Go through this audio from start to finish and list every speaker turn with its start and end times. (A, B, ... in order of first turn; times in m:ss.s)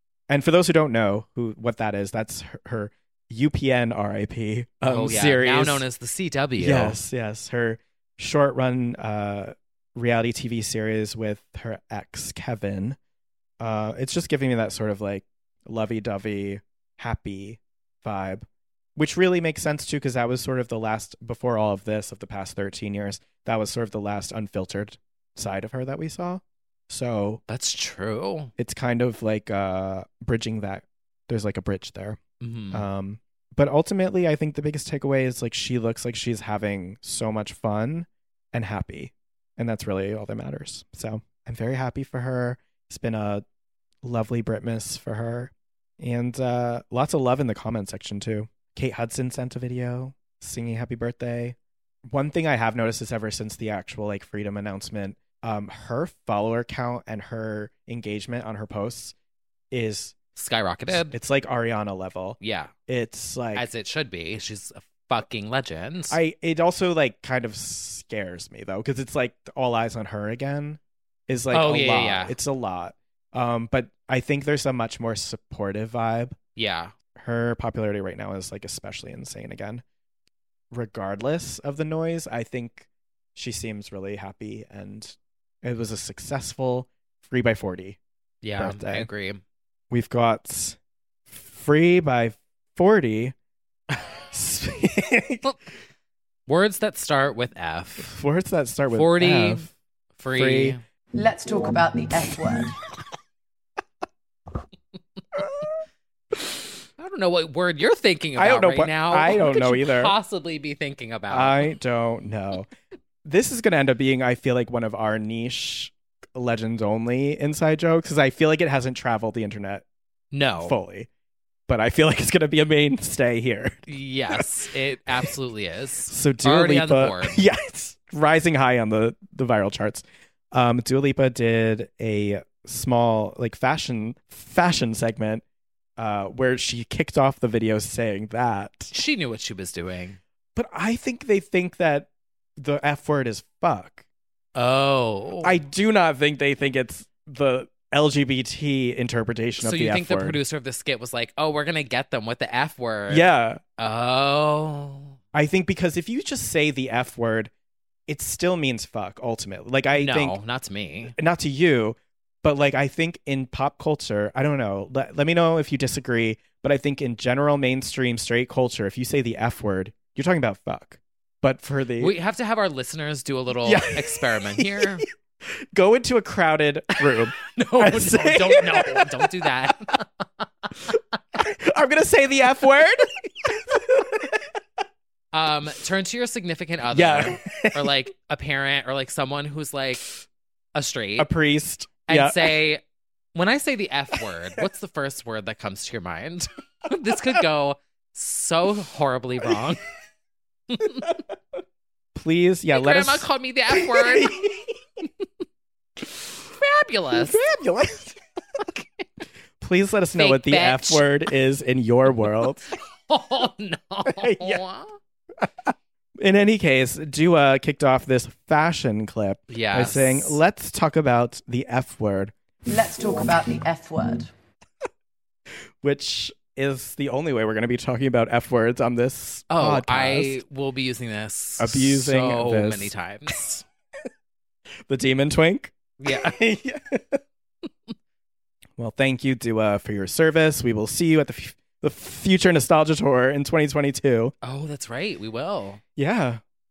0:00.3-0:05.8 A
0:04.8-0:07.0 B
0:06.6-0:13.0 A
0:13.6-0:27.4 A
0:27.5-0:28.5 B
0:28.6-0:32.2 A
0:32.4-0:32.8 B
0:32.7-0:43.4 A
0:44.0-0:51.6 A
0:52.1-0:59.1 A
0:59.7-1:00.2 A
1:00.4-1:01.1 B
1:00.9-1:03.7 A
1:02.4-1:02.7 B
1:03.5-1:06.2 B
1:06.1-1:16.4 A
1:11.5-1:12.4 B
1:16.6-1:16.9 B
1:17.2-1:19.8 A
1:20.7-1:28.0 A
1:28.4-1:29.4 B
1:28.6-1:29.1 A
1:29.9-1:33.3 A
1:34.3-1:35.5 A
1:36.5-1:38.1 B
1:38.0-1:39.7 A
1:38.9-1:40.8 B
1:40.3-1:40.8 A
1:41.1-1:42.8 C
1:47.0-1:51.7 B
1:48.4-1:50.1 A
1:51.3-1:52.7 A
1:53.2-1:59.8 A
2:00.3-2:00.8 B
2:00.6-2:01.1 A
2:01.7-2:04.4 A
2:03.9-2:07.4 B
2:06.1-2:15.4 A
2:16.0-2:18.9 A
2:18.9-2:20.2 B
2:20.5-2:24.0 A
2:24.5-2:25.6 B
2:25.4-2:30.4 A
2:29.6-2:33.3 B
2:33.1-2:33.6 A
2:33.8-2:35.2 B
2:35.3-2:37.5 A
2:38.1-2:40.4 A
2:39.9-2:41.1 B
2:41.1-2:52.1 A
2:52.0-2:55.0 B
2:53.6-2:55.0 A
2:55.7-2:59.9 A
2:57.1-3:00.9 B
3:00.9-3:04.5 A
3:05.3-3:10.0 B
3:06.9-3:08.0 A
3:10.7-3:11.3 B
3:11.2-3:12.6 A
3:12.1-3:12.8 B
3:13.3-3:19.8 B
3:20.7-3:21.1 B
3:22.1-3:24.8 A
3:22.7-3:24.4 B
3:26.5-3:27.5 B
3:27.1-3:28.2 A
3:28.6-3:29.0 B
3:29.6-3:32.7 A
3:30.2-3:31.0 B
3:33.1-3:35.0 B
3:34.0-3:34.6 A
3:35.4-3:42.3 A
3:39.5-3:40.4 B
3:42.6-3:44.3 C
3:45.8-3:50.4 A
3:49.5-3:53.6 B
3:51.6-3:52.9 A
3:54.9-3:57.2 A
3:56.0-3:56.4 B
3:58.8-4:04.3 A
4:04.4-4:05.8 B
4:06.0-4:06.4 A